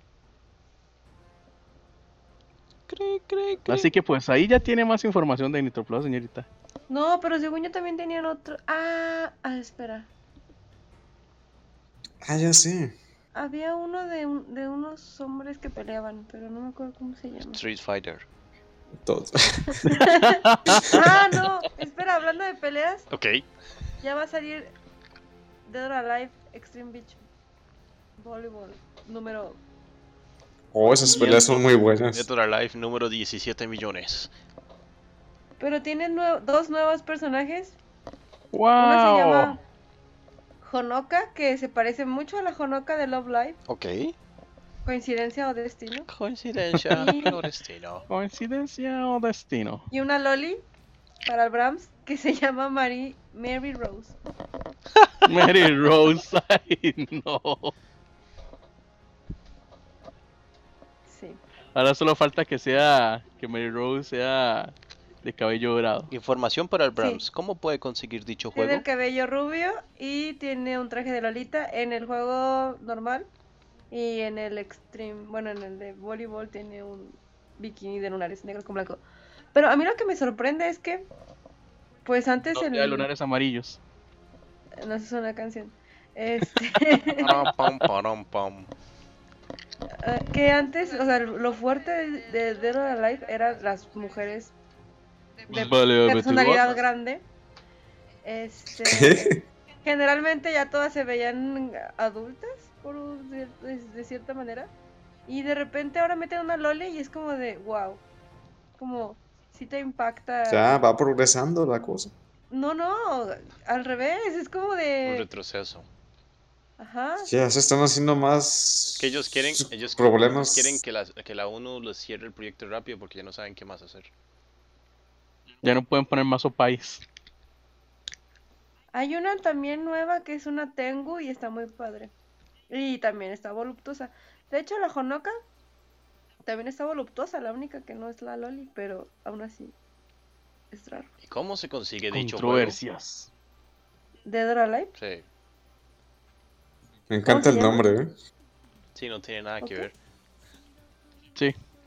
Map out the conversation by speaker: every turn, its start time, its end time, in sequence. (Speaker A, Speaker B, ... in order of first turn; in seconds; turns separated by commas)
Speaker A: 2.9-3.9, Speaker B: 3.7-6.5, Speaker C: 6.9-10.1, Speaker D: 12.2-12.9, Speaker C: 13.3-17.6, Speaker A: 17.5-18.2, Speaker D: 19.0-19.9, Speaker C: 19.8-23.1, Speaker B: 19.9-21.0, Speaker A: 23.1-23.4, Speaker C: 24.0-24.7, Speaker C: 25.6-27.2, Speaker C: 28.2-29.6, Speaker D: 30.7-32.2, Speaker A: 31.0-34.3, Speaker B: 31.1-31.6, Speaker C: 35.6-37.8, Speaker B: 38.5-39.6, Speaker C: 38.8-39.6, Speaker C: 40.6-43.6, Speaker A: 43.7-44.1, Speaker C: 44.8-46.1, Speaker A: 46.1-48.0, Speaker C: 46.9-47.4, Speaker B: 48.1-49.9, Speaker C: 49.9-50.6, Speaker C: 51.2-54.1, Speaker B: 55.2-57.7, Speaker C: 61.1-61.4, Speaker B: 61.7-66.1, Speaker A: 66.1-68.8, Speaker C: 67.0-67.2, Speaker C: 68.5-73.3, Speaker C: 73.9-79.0, Speaker C: 79.5-81.1, Speaker C: 82.0-83.1, Speaker B: 82.5-83.8, Speaker C: 84.8-87.5, Speaker A: 87.2-88.7, Speaker C: 90.0-94.5, Speaker B: 95.5-96.7, Speaker C: 95.5-97.2, Speaker C: 98.2-104.7, Speaker D: 98.7-99.4, Speaker C: 105.3-108.0, Speaker C: 108.8-110.7, Speaker D: 110.5-112.1, Speaker C: 112.5-115.2, Speaker A: 115.0-115.9, Speaker C: 116.8-117.3, Speaker D: 117.2-120.8, Speaker A: 118.9-124.1, Speaker B: 125.6-127.0, Speaker C: 128.9-132.1, Speaker C: 132.7-135.3, Speaker C: 136.4-139.7, Speaker C: 140.7-141.1, Speaker A: 141.2-142.8, Speaker B: 142.1-143.3, Speaker C: 144.2-144.9, Speaker A: 144.9-145.2, Speaker D: 147.1-148.1, Speaker C: 147.2-147.8, Speaker A: 148.9-149.9, Speaker C: 149.6-149.9